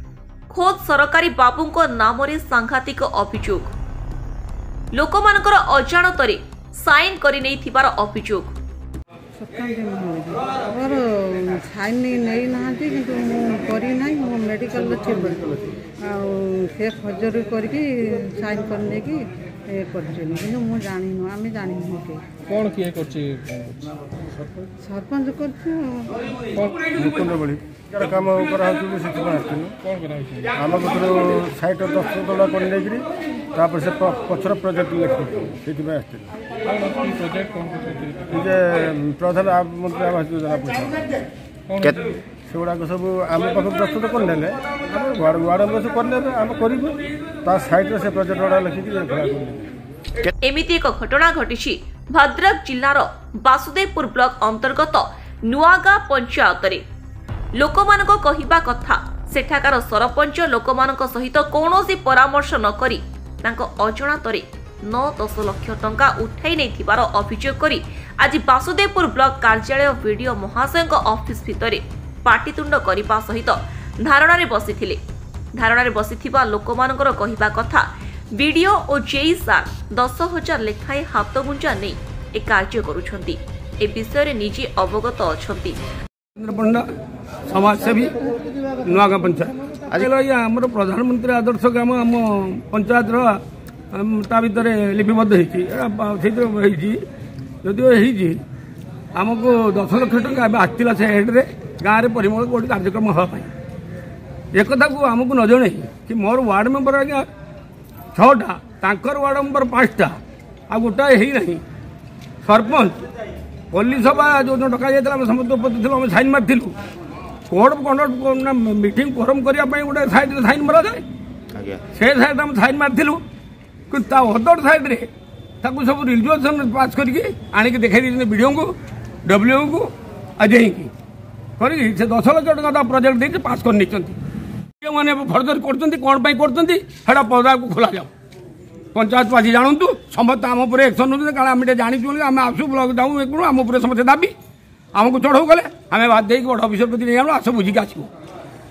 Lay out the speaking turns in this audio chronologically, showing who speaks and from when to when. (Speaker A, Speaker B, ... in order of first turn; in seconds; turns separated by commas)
Speaker A: 0.5-3.7, Speaker A: 4.9-8.5, Speaker B: 9.3-22.4, Speaker C: 22.4-23.8, Speaker B: 24.7-26.3, Speaker D: 26.9-29.9, Speaker C: 30.1-30.4, Speaker D: 30.4-36.3, Speaker C: 36.7-38.2, Speaker D: 38.2-41.2, Speaker D: 42.5-49.7, Speaker A: 50.4-56.8, Speaker A: 57.6-75.0, Speaker A: 75.6-85.8, Speaker E: 86.4-86.9, Speaker E: 87.5-97.0, Speaker E: 97.6-98.4, Speaker E: 99.1-103.5, Speaker E: 104.5-107.2, Speaker E: 108.1-110.2, Speaker E: 110.7-111.6, Speaker E: 112.4-113.0, Speaker E: 113.7-116.7, Speaker E: 117.5-121.0, Speaker E: 121.7-123.2, Speaker E: 123.9-125.1, Speaker E: 125.6-130.9, Speaker E: 131.6-134.2, Speaker E: 134.8-138.1, Speaker E: 138.9-144.3, Speaker E: 144.9-148.1